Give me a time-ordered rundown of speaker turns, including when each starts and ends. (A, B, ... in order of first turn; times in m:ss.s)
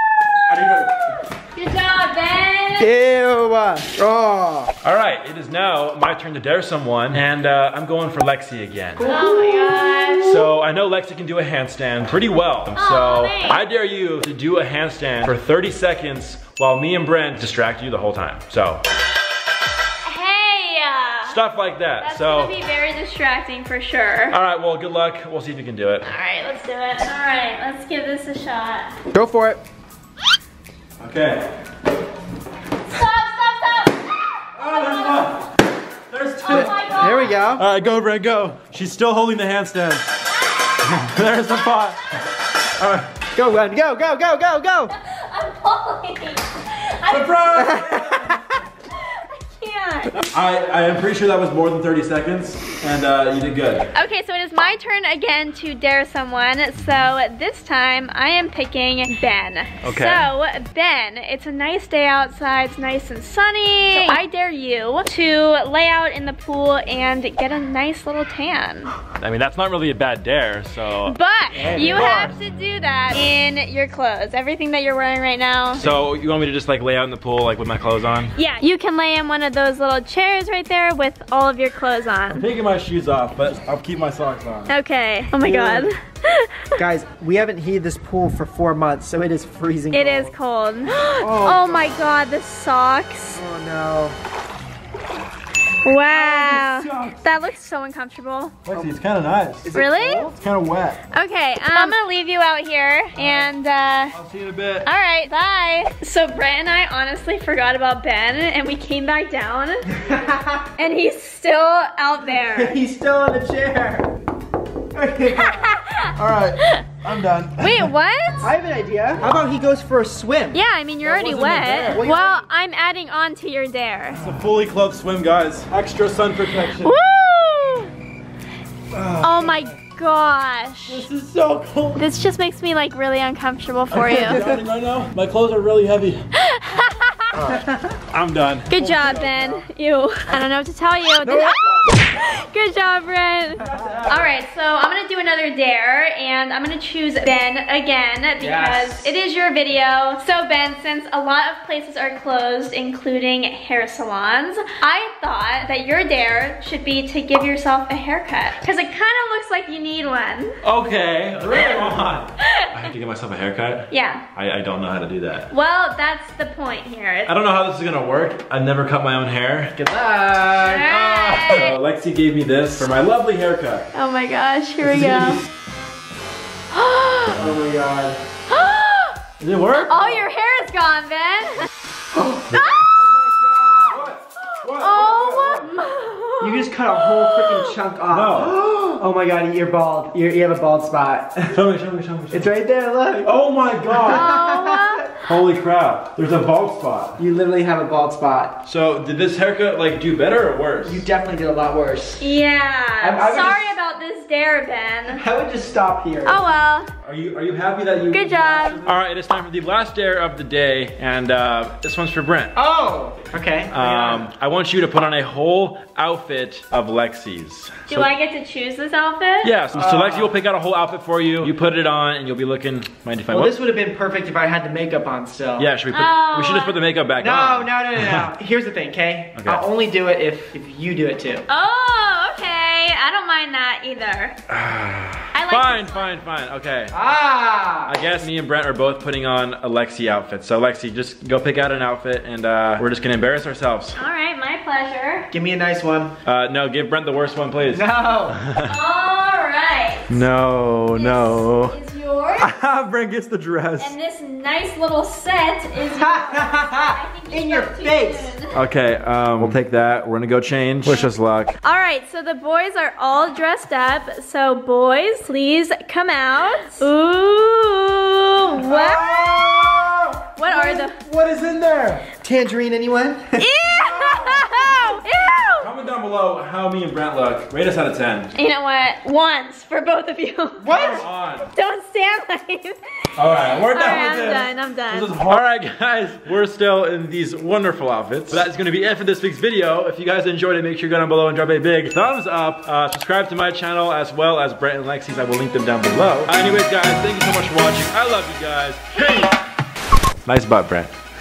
0:00.5-0:01.2 A
0:01.4-0:02.9 B
0:02.8-0:04.7 C
0:04.8-0:09.2 A
0:09.0-0:10.5 C
0:09.0-0:10.4 B
0:10.2-0:18.8 A
0:12.8-0:13.6 B
0:20.0-0:21.4 B
0:21.2-0:22.5 A
0:22.0-0:24.4 B
0:24.3-0:26.1 A
0:26.0-0:28.9 B
0:29.1-0:29.6 C
0:31.0-0:31.5 A
0:32.9-0:35.3 B
0:34.6-0:35.5 A
0:36.1-0:40.1 A
0:36.4-0:37.4 B
0:36.5-0:37.6 C
0:40.8-0:42.0 A
0:42.8-0:43.1 A
0:43.4-0:44.9 C
0:44.9-0:48.0 B
0:47.1-0:48.4 A
0:47.6-0:48.4 C
0:48.9-0:50.2 B
0:50.2-0:53.9 A
0:53.9-1:08.9 B
0:59.8-1:00.3 A
1:09.1-1:12.4 A
1:11.0-1:15.9 B
1:15.8-1:18.3 A
1:18.4-1:22.4 B
1:22.3-1:24.7 A
1:24.7-1:26.8 B
1:25.4-1:25.9 C
1:26.8-1:30.3 C
1:29.9-1:33.4 B
1:31.2-1:31.9 C
1:33.4-1:34.2 C
1:35.8-1:38.6 B
1:36.1-1:36.9 C
1:36.8-1:37.2 A
1:38.6-1:39.8 A
1:39.6-1:40.4 C
1:39.7-1:40.2 B
1:40.3-1:41.0 A
1:41.1-1:44.2 B
1:44.1-1:44.9 A
1:44.8-1:50.0 B
1:50.0-1:50.7 C
1:50.8-1:52.8 B
1:52.5-1:54.1 C
1:54.9-1:55.7 C
1:55.3-1:56.9 B
1:56.2-1:57.9 A
1:57.6-1:58.5 B
1:58.4-2:00.6 C
2:00.5-2:04.2 B
2:01.0-2:02.1 A
2:01.9-2:02.5 C
2:04.2-2:07.0 A
2:06.8-2:07.9 B
2:08.9-2:09.8 A
2:09.2-2:11.1 B
2:10.9-2:12.1 A
2:12.0-2:14.4 B
2:13.9-2:16.3 A
2:16.4-2:17.4 B
2:17.3-2:19.7 A
2:17.5-2:17.9 C
2:18.7-2:40.6 B
2:21.2-2:21.8 C
2:23.6-2:24.3 A
2:23.8-2:24.0 C
2:28.4-2:29.1 C
2:40.6-2:45.5 A
2:41.4-2:42.0 C
2:42.4-2:42.9 B
2:43.9-2:44.2 B
2:45.5-2:47.3 B
2:47.2-2:50.0 A
2:49.9-2:50.8 C
2:50.6-2:51.8 B
2:50.6-2:53.9 A
2:53.9-2:55.4 B
2:54.9-2:55.4 A
2:56.7-2:57.4 B
2:57.3-2:58.2 C
2:58.5-2:59.2 B
2:59.4-3:00.2 A
2:59.8-3:01.7 B
3:02.1-3:04.1 C
3:02.5-3:02.9 B
3:03.8-3:05.7 A
3:04.5-3:07.8 B
3:06.4-3:11.6 C
3:08.1-3:08.6 A
3:11.5-3:12.6 A
3:12.3-3:13.3 C
3:13.2-3:14.3 A
3:13.9-3:15.0 C
3:14.1-3:15.2 B
3:15.2-3:17.2 A
3:17.2-3:18.6 C
3:18.6-3:21.0 A
3:20.8-3:22.2 C
3:22.2-3:25.2 B
3:23.0-3:23.6 C
3:25.1-3:26.5 C
3:26.2-3:26.9 B
3:27.0-3:32.5 A
3:28.1-3:28.8 B
3:32.5-3:34.3 C
3:33.7-3:38.1 A
3:37.9-3:39.5 B
3:39.4-3:43.5 A
3:39.7-3:40.3 C
3:43.3-3:45.7 C
3:45.6-3:48.3 A
3:45.9-3:46.8 B
3:47.2-3:51.5 C
3:49.4-3:49.7 A
3:51.5-3:54.4 B
3:54.5-3:57.0 A
3:55.3-3:56.1 B
3:56.9-3:58.0 C
3:57.9-4:04.0 A
4:04.0-4:05.3 B
4:05.3-4:06.1 C
4:06.2-4:08.7 A
4:07.7-4:08.4 C
4:08.6-4:10.2 B
4:10.1-4:11.8 A
4:10.9-4:12.5 B
4:12.4-4:14.0 A
4:13.8-4:18.5 B
4:15.9-4:18.3 C
4:18.5-4:21.6 A
4:21.6-4:29.4 B
4:28.7-4:29.9 C
4:28.7-4:32.0 A
4:30.4-4:31.0 B
4:32.0-4:33.5 C
4:33.4-4:35.7 B
4:33.9-4:34.4 A
4:35.6-4:38.3 A
4:38.4-4:42.8 B
4:40.6-4:41.1 C
4:40.7-4:41.5 A
4:43.2-4:59.3 A
4:43.5-4:45.1 B
4:59.0-4:59.3 B
5:00.2-5:00.9 A